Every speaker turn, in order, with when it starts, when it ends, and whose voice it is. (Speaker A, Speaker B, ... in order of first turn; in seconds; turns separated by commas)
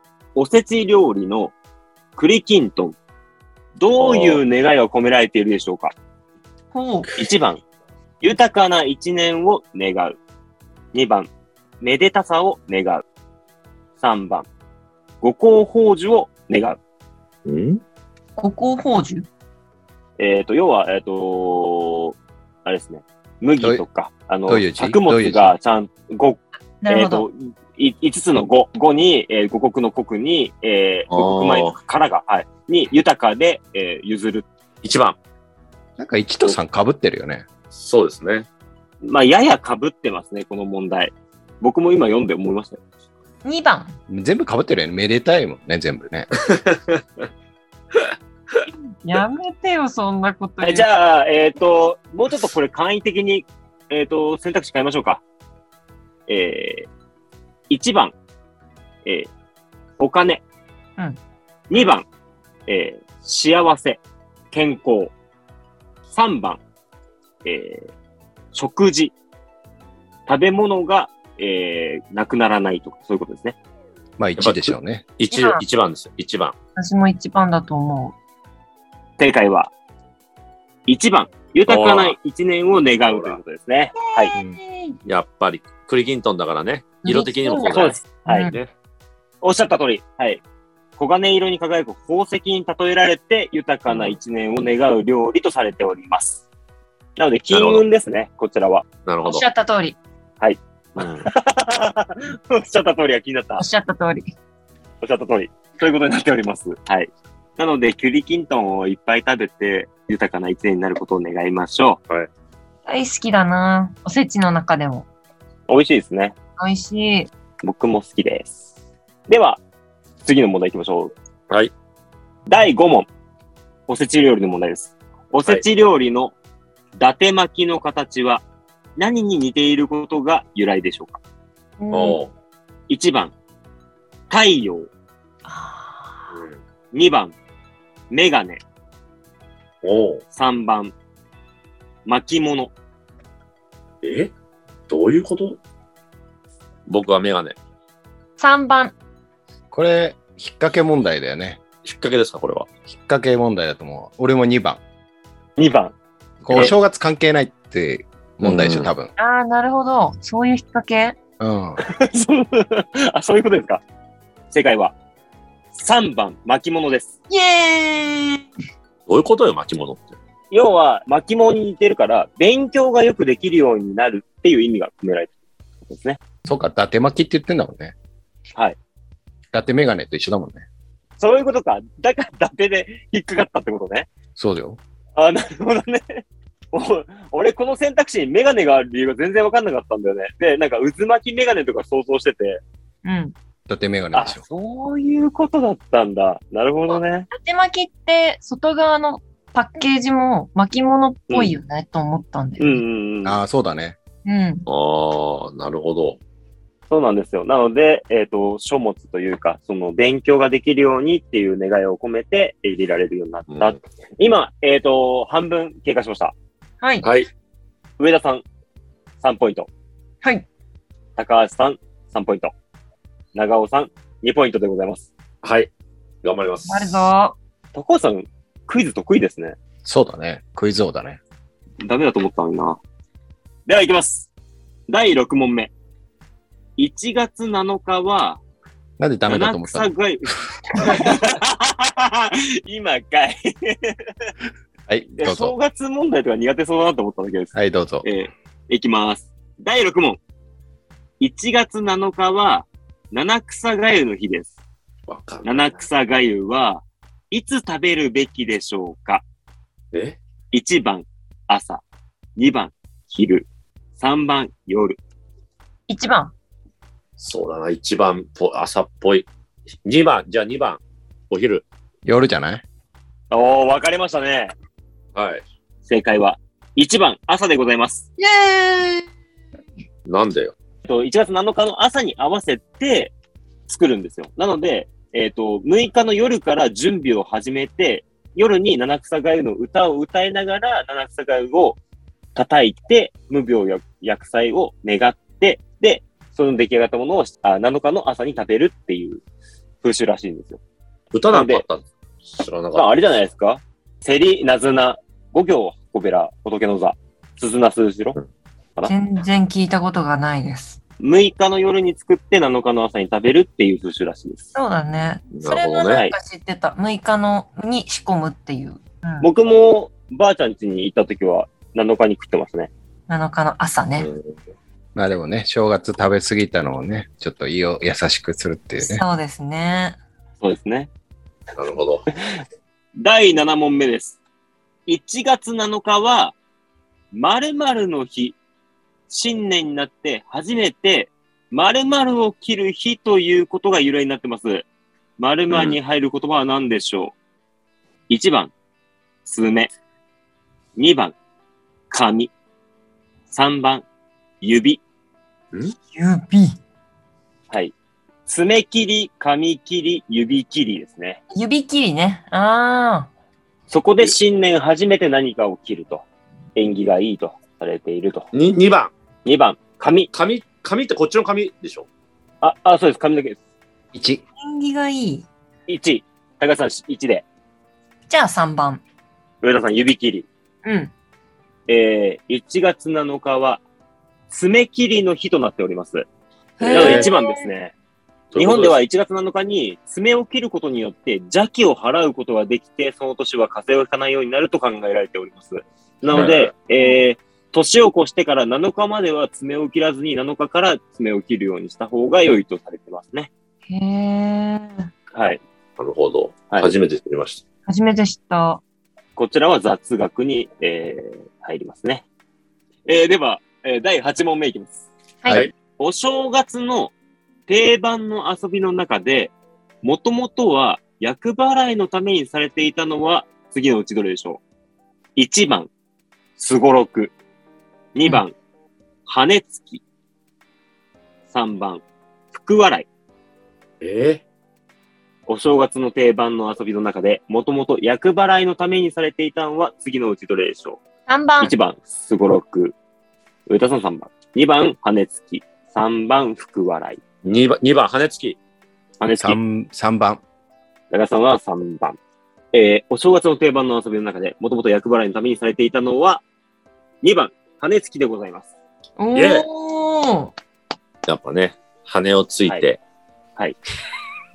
Speaker A: 0.4-1.5, Speaker A: 2.2-3.0, Speaker A: 3.8-5.9, Speaker B: 4.0-4.4, Speaker C: 6.7-7.2, Speaker A: 7.2-7.6, Speaker A: 8.2-10.2, Speaker A: 10.9-11.3, Speaker A: 11.8-13.0, Speaker A: 14.0-14.5, Speaker A: 15.2-16.8, Speaker B: 17.5-17.8, Speaker C: 18.4-19.3, Speaker A: 20.2-34.5, Speaker D: 24.5-25.5, Speaker C: 26.8-27.2, Speaker B: 31.1-31.8, Speaker B: 34.8-35.2, Speaker D: 36.0-37.5, Speaker B: 37.7-38.5, Speaker A: 39.0-42.8, Speaker C: 43.4-44.0, Speaker D: 44.1-46.3, Speaker B: 46.4-47.2, Speaker B: 47.9-48.7, Speaker C: 49.0-50.9, Speaker A: 50.6-55.2, Speaker A: 56.3-56.9, Speaker A: 57.7-58.1, Speaker A: 59.0-59.3, Speaker A: 60.0-60.4, Speaker A: 61.7-62.1, Speaker A: 62.7-64.0, Speaker A: 64.5-65.1, Speaker A: 66.1-66.6, Speaker A: 67.5-67.9, Speaker A: 68.5-69.1, Speaker A: 70.3-73.6, Speaker D: 74.2-75.1, Speaker B: 74.4-76.5, Speaker C: 75.3-75.6, Speaker C: 76.8-78.2, Speaker A: 79.2-79.7, Speaker A: 80.9-84.3, Speaker B: 81.7-82.2, Speaker B: 83.0-83.4, Speaker C: 84.2-85.0, Speaker B: 85.0-88.0, Speaker C: 87.0-88.6, Speaker A: 87.6-88.5, Speaker A: 89.4-90.4, Speaker A: 91.0-96.4, Speaker A: 97.2-98.8, Speaker B: 97.5-97.8, Speaker B: 99.1-99.5, Speaker C: 99.2-100.0, Speaker A: 100.4-103.7, Speaker B: 101.0-101.2, Speaker C: 103.6-104.3, Speaker A: 105.0-112.0, Speaker C: 112.9-115.1, Speaker A: 115.7-116.4, Speaker C: 116.6-117.3, Speaker A: 117.6-118.6, Speaker A: 119.3-119.6, Speaker A: 120.2-121.1, Speaker A: 122.5-123.1, Speaker A: 123.9-126.3, Speaker A: 127.0-128.4, Speaker A: 129.0-131.2, Speaker C: 131.8-132.2, Speaker B: 131.9-132.3, Speaker A: 132.9-133.3, Speaker A: 134.3-134.9, Speaker C: 135.4-136.2, Speaker B: 136.3-136.6, Speaker A: 136.9-137.3, Speaker A: 138.1-138.6, Speaker B: 139.8-140.2, Speaker A: 140.3-140.9, Speaker A: 142.1-142.7, Speaker B: 144.0-144.3, Speaker B: 144.9-145.6, Speaker B: 146.9-147.6, Speaker C: 148.4-148.9, Speaker D: 149.7-151.6, Speaker B: 151.8-152.7, Speaker D: 152.9-154.8, Speaker A: 155.6-155.9, Speaker B: 156.4-156.7, Speaker D: 156.4-159.1, Speaker B: 158.4-158.9, Speaker C: 159.2-161.2, Speaker D: 161.4-161.8, Speaker A: 161.8-163.8, Speaker A: 164.5-164.9, Speaker A: 165.7-167.1, Speaker C: 167.3-168.4, Speaker B: 169.1-170.2, Speaker A: 170.5-175.3, Speaker A: 175.9-176.2, Speaker D: 176.5-177.9, Speaker D: 179.5-180.7, Speaker A: 181.2-184.1, Speaker D: 184.4-184.8, Speaker A: 185.2-192.6, Speaker C: 193.0-193.3, Speaker D: 193.7-194.4, Speaker A: 194.1-197.3, Speaker C: 197.3-202.8, Speaker A: 201.3-201.6, Speaker A: 202.6-203.4, Speaker D: 203.2-204.0, Speaker C: 204.2-204.7, Speaker B: 204.7-206.2, Speaker A: 206.9-216.3, Speaker B: 213.5-213.8, Speaker C: 216.8-217.1, Speaker B: 217.0-217.3, Speaker A: 218.0-218.4, Speaker A: 219.2-219.7, Speaker A: 221.2-222.5, Speaker A: 223.3-225.1, Speaker B: 225.4-225.7, Speaker B: 226.2-227.0, Speaker C: 226.7-227.3, Speaker A: 227.8-229.6, Speaker D: 229.8-231.2, Speaker A: 231.8-232.8, Speaker A: 233.7-234.3, Speaker A: 234.9-235.7, Speaker A: 236.8-238.4, Speaker D: 239.0-241.2, Speaker A: 239.3-244.0, Speaker D: 244.9-245.5, Speaker A: 245.2-250.2, Speaker D: 247.5-248.1, Speaker A: 251.2-254.5, Speaker B: 255.1-255.8, Speaker A: 255.4-259.2, Speaker B: 259.9-260.2, Speaker A: 260.5-261.8, Speaker A: 262.4-263.5, Speaker A: 264.0-265.0, Speaker C: 265.9-266.3, Speaker B: 267.2-269.3, Speaker B: 269.8-271.6, Speaker D: 272.1-272.6, Speaker A: 273.3-274.5, Speaker B: 275.1-275.4, Speaker A: 275.9-278.1, Speaker C: 278.2-279.1, Speaker B: 280.1-280.5, Speaker A: 280.9-283.1, Speaker A: 283.7-291.8, Speaker A: 292.4-299.2, Speaker A: 299.8-300.6, Speaker B: 301.1-303.0, Speaker A: 301.3-301.6, Speaker A: 302.8-308.2, Speaker C: 308.9-310.8, Speaker A: 311.0-314.5, Speaker C: 314.6-319.3, Speaker B: 315.4-316.0, Speaker A: 319.2-322.7, Speaker C: 323.1-324.1, Speaker B: 324.0-324.3, Speaker D: 324.9-329.0, Speaker C: 328.8-330.0, Speaker A: 330.4-330.9, Speaker B: 331.6-332.1, Speaker A: 333.0-334.2, Speaker A: 334.9-336.4, Speaker A: 337.1-338.4, Speaker A: 339.1-344.6, Speaker A: 345.2-347.1, Speaker B: 345.5-345.8, Speaker A: 348.1-348.5, Speaker A: 349.2-349.7, Speaker A: 350.8-351.1, Speaker A: 351.9-352.3, Speaker A: 353.3-353.9, Speaker A: 354.4-354.8, Speaker C: 355.9-356.6, Speaker A: 358.3-361.2, Speaker C: 361.3-363.1, Speaker A: 363.7-366.1, Speaker A: 366.6-368.3, Speaker B: 368.3-368.9, Speaker A: 369.2-370.1, Speaker B: 370.1-371.9, Speaker A: 372.4-373.4, Speaker D: 373.9-374.2, Speaker C: 374.4-375.3, Speaker A: 375.7-377.2, Speaker C: 378.1-378.8, Speaker A: 379.4-380.3, Speaker C: 380.6-380.9, Speaker A: 381.7-383.6, Speaker A: 384.3-386.1, Speaker C: 386.6-387.5, Speaker A: 386.6-387.7, Speaker B: 386.7-387.1, Speaker B: 388.3-388.7, Speaker A: 388.4-403.3, Speaker B: 396.1-396.5, Speaker C: 403.7-404.9, Speaker A: 405.1-405.4, Speaker B: 405.8-407.4, Speaker C: 407.7-408.6, Speaker A: 409.2-412.0, Speaker A: 412.9-414.9, Speaker B: 415.3-415.5, Speaker A: 415.8-416.9, Speaker A: 417.5-424.4, Speaker A: 425.2-425.7, Speaker A: 426.4-427.1, Speaker A: 427.9-428.4, Speaker A: 429.1-429.8, Speaker A: 431.3-432.9, Speaker B: 433.8-434.2, Speaker A: 435.3-440.8, Speaker C: 441.1-441.5, Speaker A: 441.4-442.8, Speaker A: 443.5-447.0, Speaker B: 447.2-448.4, Speaker A: 449.0-449.4, Speaker D: 449.2-450.2, Speaker A: 450.9-452.0, Speaker A: 452.5-456.2, Speaker A: 457.0-458.5, Speaker C: 459.0-460.3, Speaker B: 459.1-459.5, Speaker B: 461.1-462.8